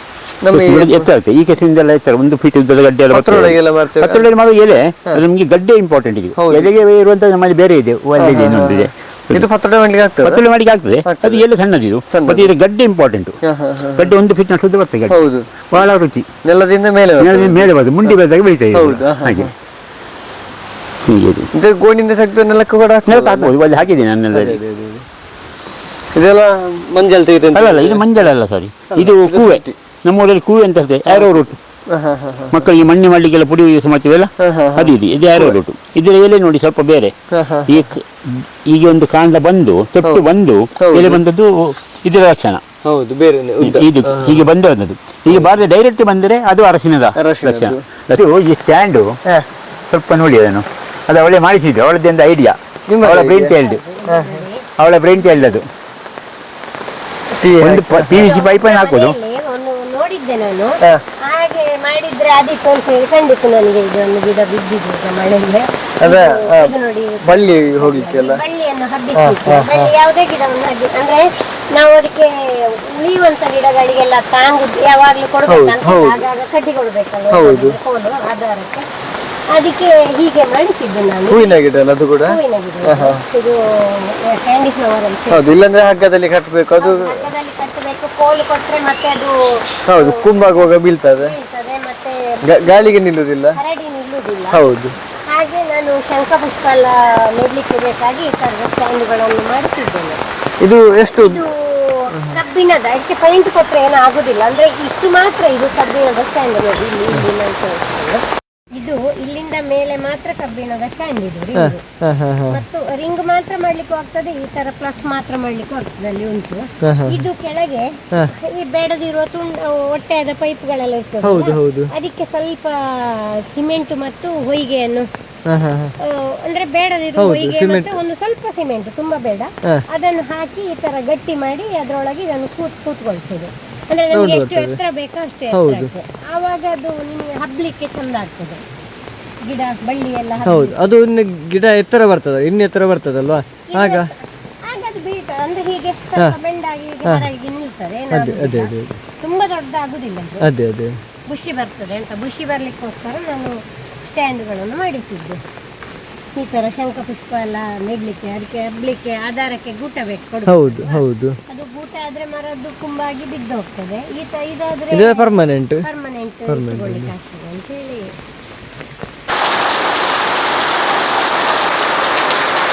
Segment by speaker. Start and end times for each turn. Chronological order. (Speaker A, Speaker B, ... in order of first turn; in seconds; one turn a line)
Speaker A: 0.4-1.1
Speaker B: 0.5-9.5
Speaker A: 3.1-4.3
Speaker A: 6.4-6.7
Speaker A: 8.2-10.4
Speaker B: 10.2-13.4
Speaker A: 11.1-11.5
Speaker A: 12.1-12.5
Speaker A: 13.4-14.2
Speaker B: 14.0-15.2
Speaker A: 15.1-15.7
Speaker B: 15.7-16.3
Speaker A: 16.4-18.2
Speaker B: 17.2-19.5
Speaker A: 18.7-19.5
Speaker B: 21.1-21.5
Speaker A: 21.5-23.6
Speaker B: 23.1-24.6
Speaker A: 24.3-25.1
Speaker A: 26.1-28.2
Speaker B: 27.5-31.6
Speaker A: 28.9-29.8
Speaker A: 31.1-32.6
Speaker B: 32.5-37.1
Speaker A: 34.4-35.6
Speaker A: 37.3-37.9
Speaker B: 37.7-42.6
Speaker A: 40.8-41.2
Speaker A: 42.8-44.5
Speaker B: 43.6-49.1
Speaker A: 45.3-45.6
Speaker A: 47.2-47.8
Speaker B: 49.9-53.8
Speaker A: 52.9-54.4
Speaker C: 53.6-54.6
Speaker B: 54.8-55.6
Speaker A: 57.4-58.3
Speaker B: 57.6-59.2
Speaker C: 58.0-78.8
Speaker A: 66.0-68.4
Speaker A: 69.2-69.9
Speaker A: 75.5-76.3
Speaker A: 77.3-77.8
Speaker C: 79.5-85.6
Speaker A: 81.3-83.2
Speaker A: 85.3-87.3
Speaker C: 86.8-93.0
Speaker A: 89.9-91.3
Speaker A: 92.5-93.6
Speaker C: 93.5-94.6
Speaker A: 94.5-94.9
Speaker C: 95.3-100.2
Speaker A: 100.6-101.5
Speaker C: 101.2-111.8
Speaker A: 102.1-102.4
Speaker A: 111.5-112.6
Speaker C: 112.5-125.1
Speaker A: 116.8-117.2
Speaker A: 121.2-121.9
Speaker A: 125.5-126.0
Speaker C: 126.0-138.6
Speaker A: 127.2-128.0
Speaker A: 134.1-134.8
Speaker A: 135.5-135.9
Speaker C: 139.4-140.8
Speaker A: 140.4-144.1
Speaker C: 143.7-150.5
Speaker A: 147.0-147.3
Speaker A: 148.1-149.0
Speaker A: 150.4-150.9
Speaker C: 151.3-155.4
Speaker C: 156.4-168.1
Speaker A: 160.5-161.4
Speaker A: 164.9-165.9
Speaker A: 166.5-167.2